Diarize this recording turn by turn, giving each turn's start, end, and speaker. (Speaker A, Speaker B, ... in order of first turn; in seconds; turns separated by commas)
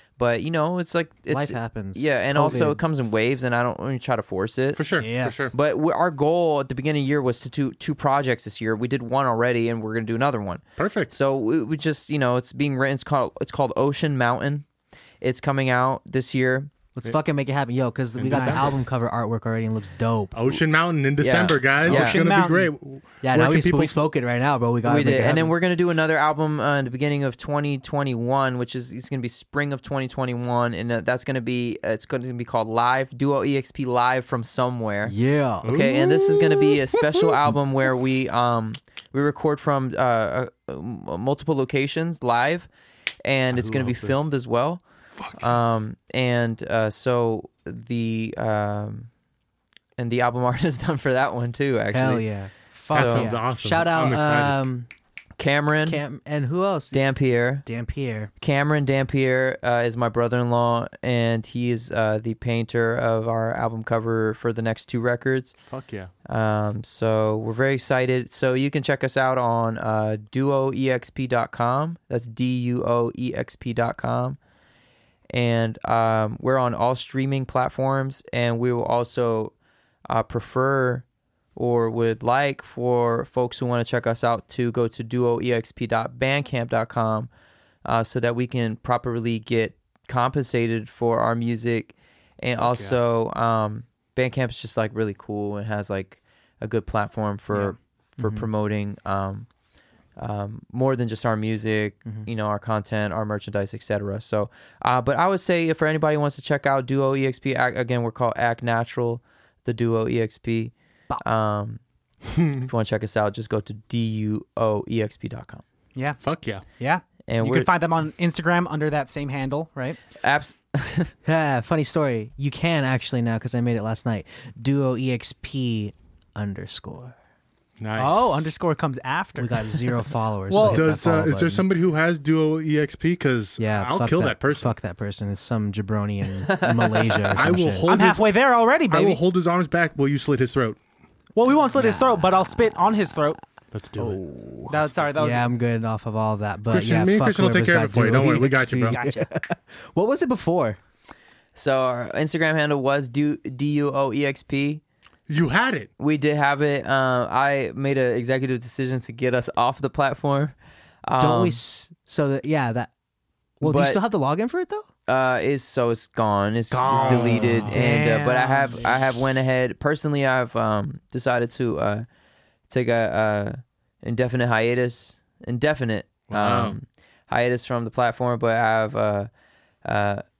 Speaker A: 0.2-4.8, Speaker B: 1.3-2.8, Speaker C: 4.7-5.5, Speaker D: 5.0-5.5, Speaker A: 5.5-14.6, Speaker C: 10.8-11.1, Speaker A: 15.2-16.7, Speaker B: 16.9-20.6, Speaker C: 18.1-18.8, Speaker D: 18.3-18.7, Speaker C: 20.3-23.9, Speaker A: 21.2-22.2, Speaker D: 21.8-22.7, Speaker B: 23.2-25.5, Speaker A: 24.8-42.7, Speaker B: 35.0-36.0, Speaker C: 35.6-36.8, Speaker A: 43.2-44.8, Speaker C: 43.5-44.2, Speaker C: 45.2-45.6, Speaker A: 45.4-49.1, Speaker A: 50.0-52.2, Speaker B: 51.9-54.9, Speaker A: 52.9-53.3, Speaker C: 52.9-54.6, Speaker A: 55.4-56.0, Speaker B: 55.9-57.1, Speaker A: 56.9-57.6, Speaker B: 57.6-58.3, Speaker A: 58.4-65.5, Speaker C: 65.7-66.1, Speaker A: 66.2-74.4, Speaker A: 75.3-79.5, Speaker A: 80.1-81.0, Speaker A: 81.5-87.3, Speaker A: 87.8-99.5, Speaker C: 92.6-93.0, Speaker B: 98.2-98.5, Speaker A: 100.2-111.8, Speaker C: 112.3-112.7, Speaker A: 112.6-115.6, Speaker D: 116.0-116.2, Speaker C: 116.2-116.6, Speaker D: 116.8-120.0, Speaker A: 117.2-117.7, Speaker A: 120.2-121.1, Speaker B: 121.2-127.1, Speaker C: 127.8-128.5, Speaker D: 128.0-129.9, Speaker B: 129.4-131.6, Speaker D: 130.5-130.8, Speaker C: 130.5-134.7, Speaker B: 133.6-137.9, Speaker A: 136.4-137.5, Speaker C: 137.3-138.3, Speaker D: 137.9-139.2, Speaker C: 138.9-140.8, Speaker D: 141.3-143.4, Speaker B: 141.8-142.2, Speaker C: 143.7-145.1, Speaker B: 144.0-150.8, Speaker D: 144.7-145.5, Speaker C: 146.7-149.0, Speaker D: 148.8-149.3, Speaker A: 151.5-154.8, Speaker C: 155.3-155.9, Speaker A: 156.0-161.6, Speaker B: 161.2-162.9, Speaker B: 163.6-164.9, Speaker A: 163.6-164.0, Speaker A: 165.1-172.1, Speaker D: 166.7-168.9, Speaker B: 166.9-167.7, Speaker C: 167.3-167.7, Speaker A: 172.7-179.3, Speaker C: 176.3-176.8, Speaker A: 179.8-180.2